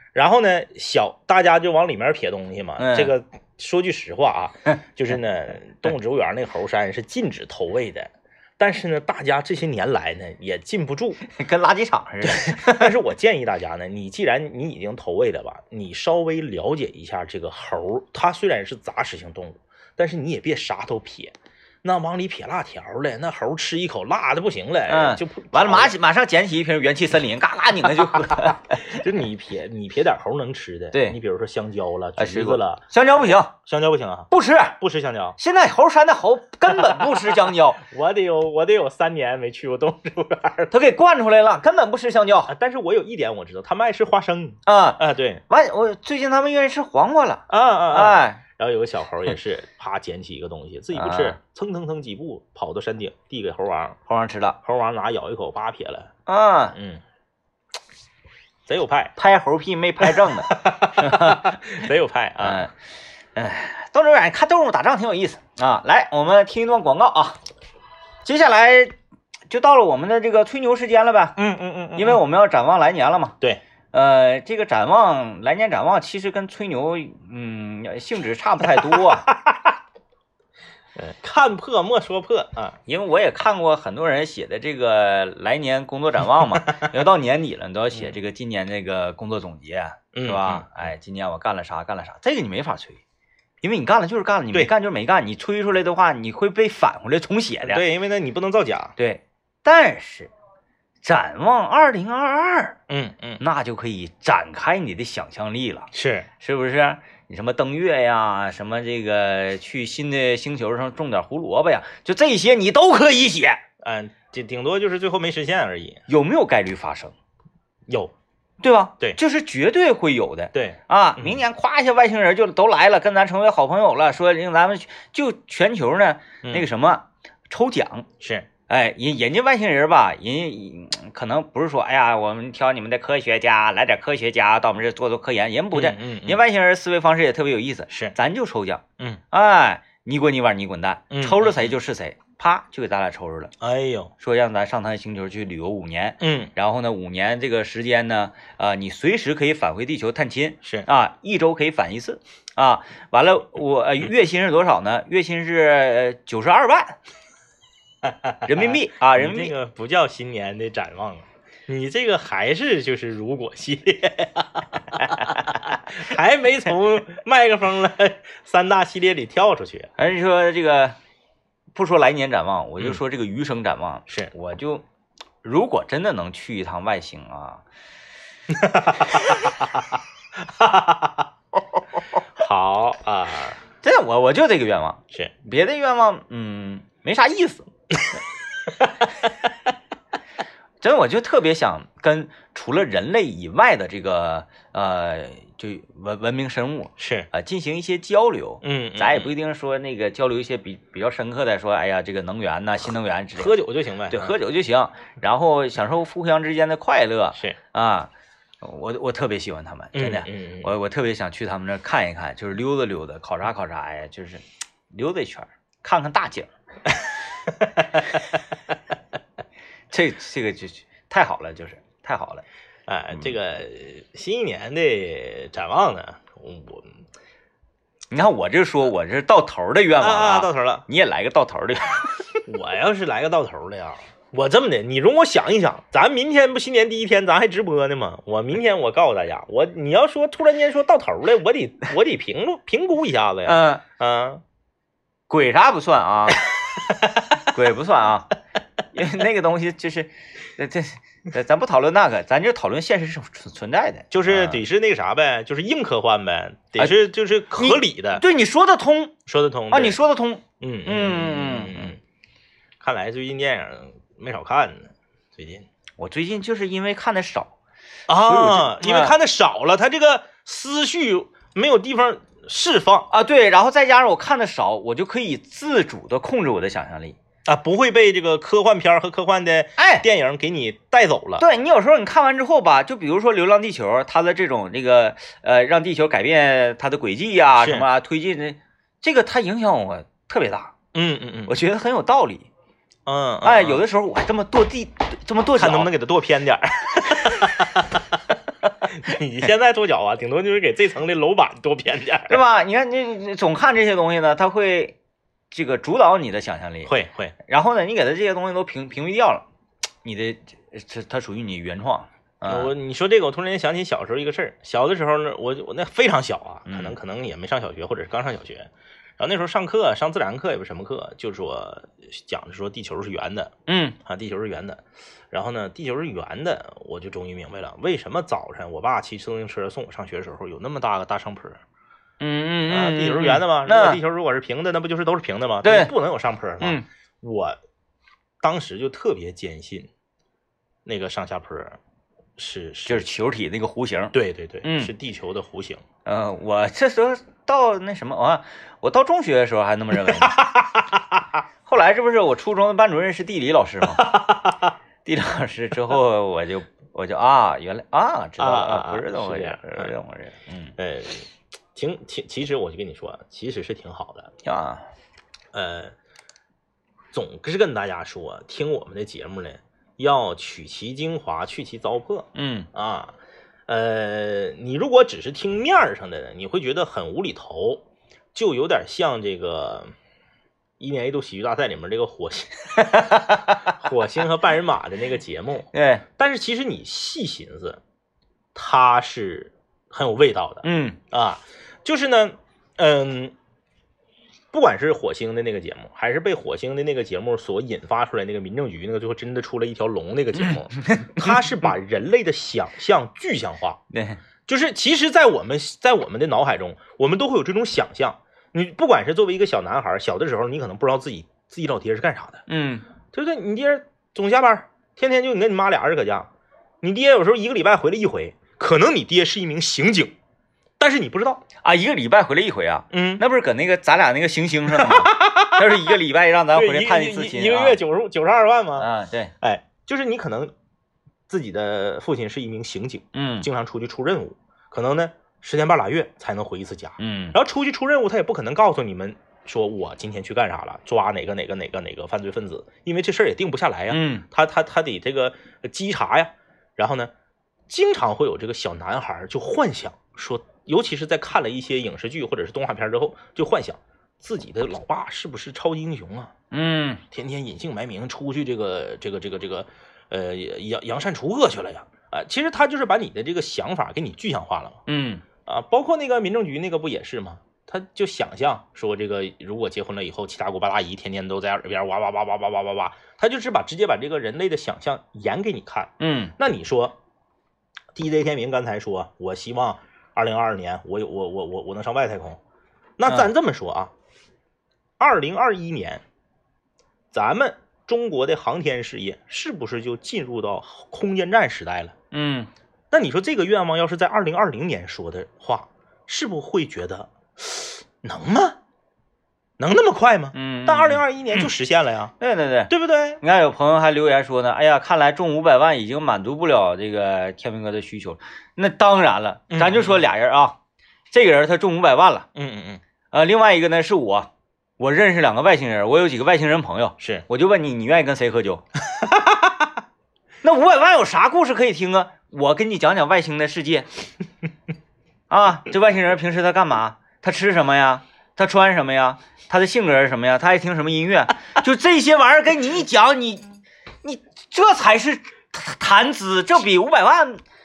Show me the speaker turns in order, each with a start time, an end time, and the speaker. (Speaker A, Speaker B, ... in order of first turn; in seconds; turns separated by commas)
Speaker A: 0.1-11.2, Speaker B: 2.8-3.1, Speaker B: 11.3-12.9, Speaker A: 12.2-25.9, Speaker B: 24.9-28.8, Speaker A: 28.9-32.8, Speaker B: 32.2-33.5, Speaker A: 33.6-35.4, Speaker B: 34.3-34.8, Speaker B: 35.4-37.8, Speaker A: 37.8-40.7, Speaker B: 40.7-42.5, Speaker A: 42.5-45.4, Speaker B: 44.7-48.4, Speaker A: 47.5-54.0, Speaker B: 50.9-51.4, Speaker B: 54.1-54.6, Speaker A: 54.6-56.1, Speaker B: 56.3-56.8, Speaker A: 56.7-57.0, Speaker A: 58.7-59.2, Speaker B: 59.2-61.6, Speaker A: 60.0-62.7, Speaker B: 62.4-62.7, Speaker B: 63.4-67.4, Speaker B: 68.2-69.0, Speaker B: 69.5-71.4, Speaker A: 71.4-72.2, Speaker B: 72.0-73.4, Speaker B: 73.9-79.3, Speaker A: 78.7-79.8, Speaker A: 81.0-82.8, Speaker B: 82.9-93.0, Speaker A: 90.1-90.7, Speaker B: 93.6-97.8, Speaker A: 97.6-98.9, Speaker B: 99.0-100.3, Speaker B: 101.0-102.8, Speaker A: 102.9-103.4, Speaker B: 103.4-113.6, Speaker A: 105.9-106.3, Speaker A: 113.8-116.0, Speaker B: 116.1-117.1, Speaker A: 117.9-118.1, Speaker B: 118.6-128.1, Speaker A: 120.5-121.4, Speaker A: 128.2-128.5, Speaker B: 128.7-143.5, Speaker A: 135.7-136.4, Speaker A: 137.9-138.2, Speaker A: 141.1-141.7, Speaker A: 143.6-144.1, Speaker B: 144.2-157.0, Speaker A: 146.2-146.5, Speaker A: 158.0-169.9, Speaker B: 158.5-159.5, Speaker B: 170.0-171.0, Speaker B: 171.7-174.8, Speaker B: 175.4-177.6, Speaker A: 178.5-179.8, Speaker A: 180.6-181.2, Speaker A: 182.4-183.6, Speaker B: 183.8-187.7, Speaker B: 190.8-203.6, Speaker A: 197.0-197.3, Speaker A: 198.6-199.3, Speaker A: 203.4-204.4, Speaker B: 204.1-216.5, Speaker A: 209.9-210.7, Speaker A: 217.5-218.1, Speaker B: 219.9-222.4, Speaker A: 222.9-227.0, Speaker B: 228.1-232.3, Speaker A: 230.0-230.8, Speaker A: 232.5-244.4, Speaker B: 243.4-243.8, Speaker B: 245.3-246.4, Speaker B: 247.4-248.3, Speaker B: 248.9-254.6, Speaker A: 254.1-258.2, Speaker B: 257.6-259.1, Speaker A: 259.3-260.0, Speaker B: 259.7-261.9, Speaker A: 260.6-262.0, Speaker A: 262.8-265.7, Speaker B: 266.0-267.5, Speaker A: 268.1-273.1, Speaker B: 268.2-269.1, Speaker B: 273.1-277.2, Speaker A: 277.5-281.4, Speaker B: 279.8-280.1, Speaker B: 281.4-290.7, Speaker A: 287.6-287.9, Speaker A: 290.9-291.6, Speaker B: 291.5-292.5, Speaker A: 293.1-293.8, Speaker B: 293.4-295.9, Speaker A: 295.6-298.0, Speaker A: 298.9-302.4, Speaker B: 302.3-305.0, Speaker B: 305.5-306.9, Speaker A: 306.9-307.4, Speaker B: 307.4-309.4, Speaker B: 310.0-312.7, Speaker A: 312.5-323.5, Speaker B: 316.7-317.0, Speaker B: 323.7-324.0, Speaker A: 324.1-324.8, Speaker A: 325.3-331.6, Speaker B: 332.2-334.0, Speaker A: 332.7-337.6, Speaker B: 335.6-335.9, Speaker B: 336.6-336.9, Speaker A: 338.4-339.9, Speaker A: 340.9-341.8, Speaker A: 342.4-343.1, Speaker B: 342.9-344.9, Speaker A: 344.1-345.8, Speaker B: 346.1-350.5, Speaker A: 350.0-351.2, Speaker B: 351.7-354.1, Speaker A: 353.9-354.7, Speaker B: 355.1-360.8, Speaker A: 358.4-359.9, Speaker A: 360.8-364.3, Speaker B: 364.4-364.9, Speaker A: 365.5-365.9, Speaker A: 367.1-373.2, Speaker B: 372.4-372.7, Speaker A: 373.7-377.8, Speaker A: 378.4-379.9, Speaker A: 380.8-387.8, Speaker B: 382.8-383.7, Speaker B: 385.7-386.0, Speaker A: 388.6-393.3, Speaker B: 390.6-391.0, Speaker A: 394.5-403.8, Speaker B: 400.3-401.7, Speaker B: 403.9-404.2, Speaker A: 404.5-412.4, Speaker B: 412.5-412.9, Speaker A: 413.1-416.3, Speaker A: 416.8-420.1, Speaker A: 420.8-421.4, Speaker B: 421.6-427.8, Speaker A: 422.9-423.2, Speaker A: 424.7-425.9, Speaker A: 426.5-428.9, Speaker B: 428.8-429.3, Speaker A: 429.4-430.5, Speaker A: 431.3-447.1, Speaker B: 433.1-433.5, Speaker B: 437.0-437.4, Speaker B: 443.9-444.3, Speaker A: 447.7-456.3, Speaker B: 456.5-457.0, Speaker A: 457.1-464.8, Speaker B: 464.9-465.2, Speaker A: 465.5-477.0, Speaker B: 476.0-476.3, Speaker A: 477.9-482.4, Speaker A: 483.0-483.9, Speaker A: 485.0-486.0, Speaker A: 487.1-491.9, Speaker B: 492.1-492.5, Speaker A: 492.9-498.6, Speaker A: 499.6-502.1, Speaker B: 500.3-501.5, Speaker B: 502.2-510.6, Speaker A: 502.7-503.2, Speaker A: 509.5-510.1, Speaker B: 511.1-512.3, Speaker A: 512.4-512.8, Speaker B: 513.1-518.6, Speaker A: 517.0-517.2, Speaker A: 518.9-519.7, Speaker B: 520.4-523.9, Speaker B: 525.3-533.5, Speaker B: 534.0-537.4